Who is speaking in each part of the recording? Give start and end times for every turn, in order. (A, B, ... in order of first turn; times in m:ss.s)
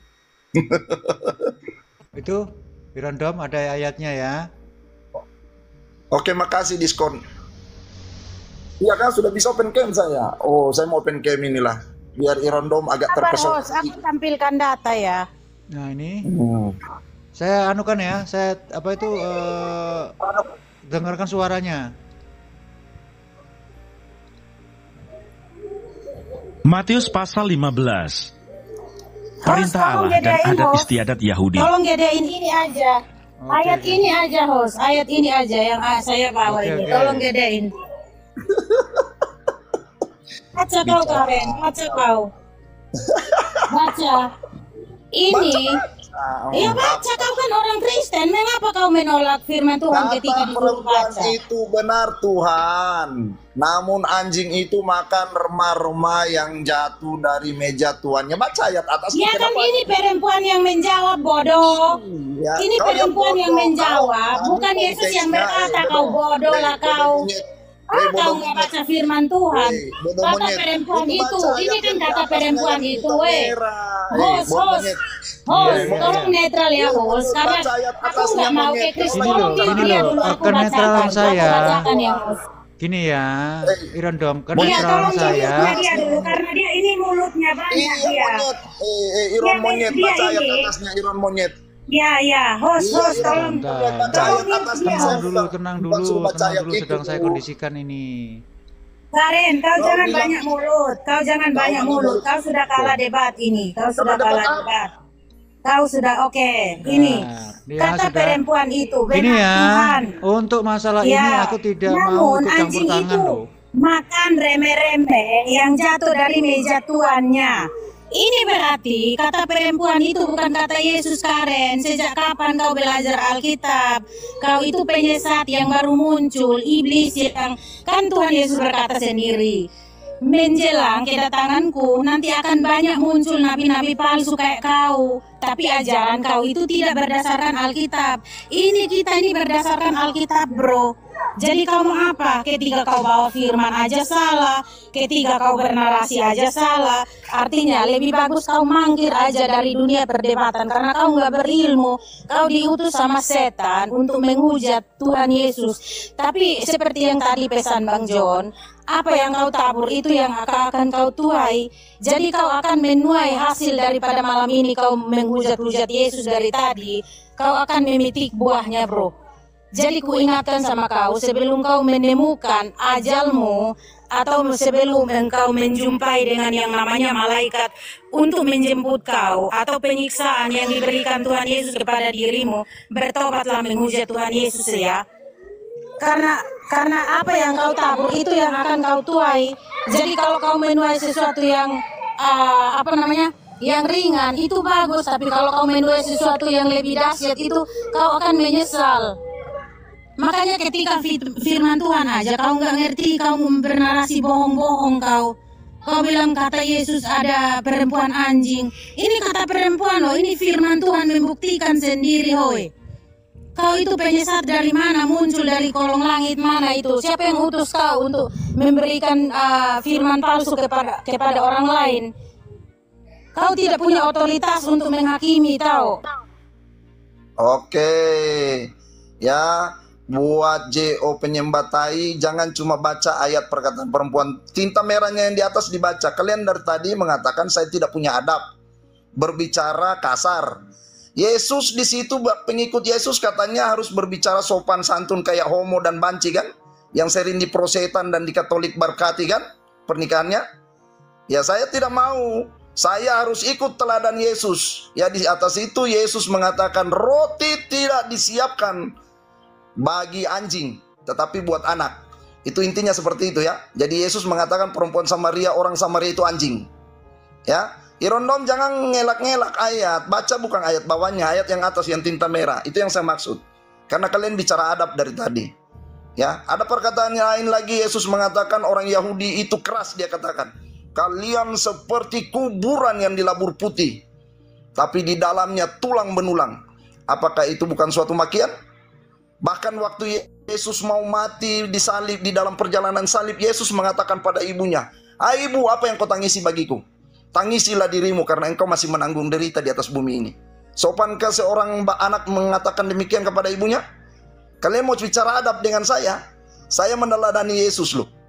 0:00.5-0:01.5 A
0:02.2-0:02.4 B
0:03.0-0:04.4 B
0:06.1-0:07.2 A
0:08.8-0:13.9 A
0:13.1-0:15.2 C
0:15.8-0:16.2 B
0:16.3-0:16.8 A
0:17.4-0:20.1 B
0:20.2-0:20.5 A
0:20.9-0:21.8 B
0:26.6-0:28.3 D
0:29.4-0:30.9 C
0:29.4-0:31.7 D
0:31.5-0:33.0 C
0:33.4-0:34.0 B
0:33.5-0:37.7 C
0:36.4-0:37.3 B
0:38.5-0:39.0 A
0:40.6-0:42.3 C
0:40.8-0:42.0 A
0:43.0-0:43.6 A
0:43.7-0:44.3 C
0:45.2-0:45.8 C
0:45.3-0:47.3 A
0:46.5-0:51.3 C
0:49.9-0:59.8 A
0:59.1-1:01.9 C
1:01.6-1:07.4 A
1:02.6-1:07.3 C
1:07.9-1:13.5 C
1:07.9-1:08.7 A
1:09.5-1:15.0 A
1:14.1-1:14.9 C
1:15.5-1:22.4 C
1:15.5-1:16.3 B
1:15.5-1:16.2 A
1:16.8-1:22.2 A
1:19.1-1:21.8 B
1:22.8-1:26.2 B
1:24.5-1:26.4 A
1:24.6-1:28.4 C
1:27.7-1:31.5 A
1:29.4-1:30.7 C
1:31.9-1:35.2 C
1:32.8-1:37.4 A
1:33.0-1:38.4 B
1:39.1-1:44.9 C
1:39.8-1:40.4 A
1:41.5-1:42.2 A
1:44.0-1:44.7 A
1:45.6-1:47.2 C
1:46.8-1:48.4 B
1:47.8-1:50.1 C
1:49.1-1:53.4 B
1:51.0-1:57.6 C
1:58.2-2:09.6 C
2:10.2-2:20.9 C
2:21.4-2:49.1 C
2:49.8-2:53.6 C
2:54.1-3:05.0 C
3:06.0-3:19.1 C
3:20.2-3:25.3 C
3:25.9-3:32.7 C
3:33.6-3:42.1 C
3:43.4-3:46.0 C
3:47.4-3:48.7 A
3:49.2-3:58.4 A
3:59.2-4:00.6 A
4:01.2-4:10.4 A
4:11.3-4:18.9 A
4:19.8-4:26.6 A
4:27.5-4:35.5 A
4:36.2-4:44.0 A
4:44.8-4:46.6 A
4:47.1-4:48.5 A
4:49.4-4:56.8 A
4:57.3-5:03.8 A
5:04.6-5:06.2 A
5:06.7-5:08.1 A